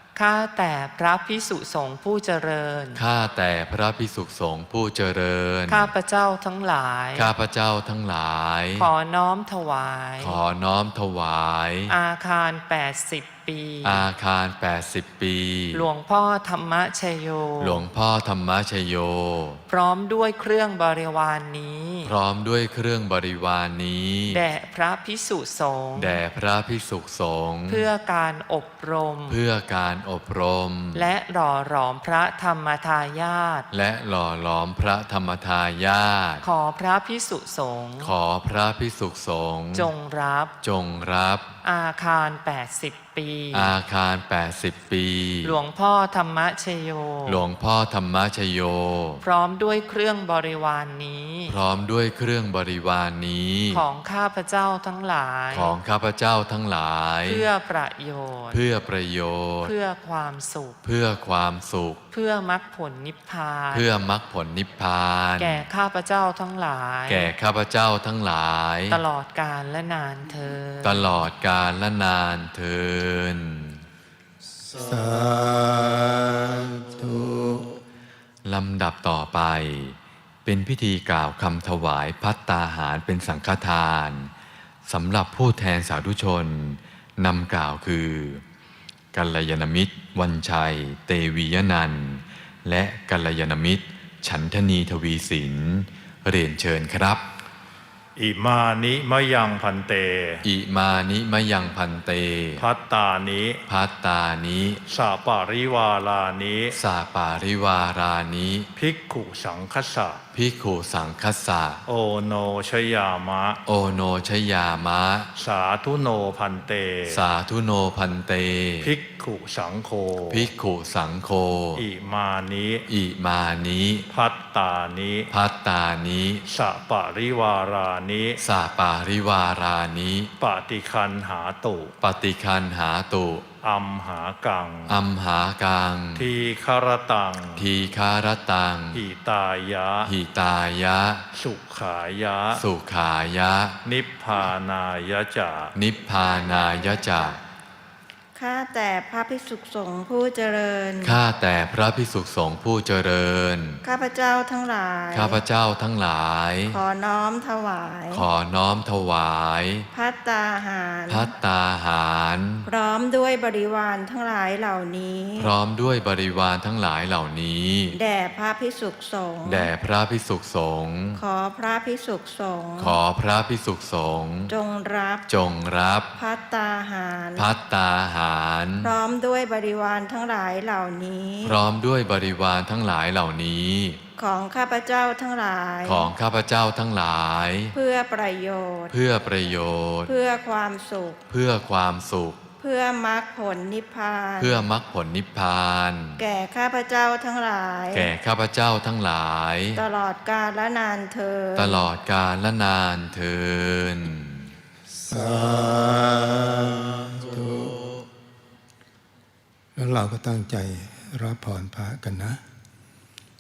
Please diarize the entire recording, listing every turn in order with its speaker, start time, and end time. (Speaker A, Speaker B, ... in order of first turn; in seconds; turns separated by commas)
Speaker A: 0.1-3.0, Speaker B: 2.9-5.9, Speaker A: 5.7-7.3, Speaker B: 7.1-8.9, Speaker A: 8.8-10.4, Speaker B: 10.2-11.9, Speaker A: 11.9-14.0, Speaker B: 13.8-15.9, Speaker A: 15.7-17.8, Speaker B: 17.6-19.6, Speaker A: 19.7-22.1, Speaker B: 22.0-24.4, Speaker A: 24.3-26.2, Speaker B: 26.0-27.9, Speaker A: 27.7-29.4, Speaker B: 29.3-31.1, Speaker A: 30.9-33.7, Speaker B: 33.7-36.4, Speaker A: 36.4-38.1, Speaker B: 38.0-39.9, Speaker A: 39.7-40.5, Speaker B: 40.6-41.5, Speaker A: 41.6-43.7, Speaker B: 43.5-45.5, Speaker A: 45.4-47.4, Speaker B: 47.2-49.2, Speaker A: 49.2-51.5, Speaker B: 51.5-53.8, Speaker A: 53.7-55.7, Speaker B: 55.5-57.5, Speaker A: 57.2-58.6, Speaker B: 58.5-59.7, Speaker A: 59.6-60.8, Speaker B: 60.8-62.0, Speaker A: 62.1-63.9, Speaker B: 63.7-65.6, Speaker A: 65.4-67.3, Speaker B: 67.1-69.0, Speaker A: 68.9-71.0, Speaker B: 70.8-73.8, Speaker C: 74.6-77.8, Speaker B: 78.4-84.3, Speaker B: 84.8-88.4, Speaker B: 89.1-97.2, Speaker D: 98.2-100.4, Speaker B: 100.4-102.6, Speaker D: 102.6-103.6, Speaker B: 103.7-104.8, Speaker D: 104.9-106.8, Speaker B: 106.7-108.7, Speaker D: 108.8-110.2, Speaker B: 110.3-111.8, Speaker D: 111.9-113.6, Speaker B: 113.7-115.3, Speaker D: 115.4-117.2, Speaker B: 117.1-118.9, Speaker D: 118.8-120.5, Speaker B: 120.3-121.8, Speaker D: 121.8-122.8, Speaker B: 122.9-124.0, Speaker D: 124.1-125.3, Speaker B: 125.3-126.4, Speaker D: 126.5-128.4, Speaker B: 128.4-130.3, Speaker D: 130.4-131.9, Speaker B: 132.0-133.4, Speaker D: 133.6-134.9, Speaker B: 134.9-136.3, Speaker D: 136.1-137.7, Speaker B: 137.6-139.0, Speaker D: 138.9-140.1, Speaker B: 140.0-141.2, Speaker D: 141.3-142.6, Speaker B: 142.5-143.8, Speaker D: 143.8-145.7, Speaker B: 145.7-147.4, Speaker E: 148.3-151.2, Speaker B: 151.0-153.8, Speaker E: 153.8-155.4, Speaker B: 155.1-156.8, Speaker E: 156.7-158.3, Speaker B: 158.1-159.9, Speaker E: 159.9-161.3, Speaker B: 161.1-162.7, Speaker E: 162.7-165.5, Speaker B: 165.3-168.0, Speaker E: 167.9-169.7, Speaker B: 169.4-171.2, Speaker E: 171.2-173.0, Speaker B: 172.8-174.5, Speaker E: 174.5-175.2, Speaker B: 175.3-176.1, Speaker E: 176.2-177.5, Speaker B: 177.3-178.9, Speaker E: 178.8-181.6, Speaker B: 181.4-184.0, Speaker E: 184.2-186.1, Speaker B: 185.8-187.8, Speaker E: 187.7-188.9, Speaker B: 188.9-190.2, Speaker E: 190.1-191.2, Speaker B: 191.3-192.4, Speaker E: 192.6-194.6, Speaker B: 194.4-196.2, Speaker E: 196.2-198.1, Speaker B: 197.9-199.8, Speaker E: 199.8-201.8, Speaker B: 201.5-204.5, Speaker C: 204.9-207.9, Speaker C: 209.8-212.4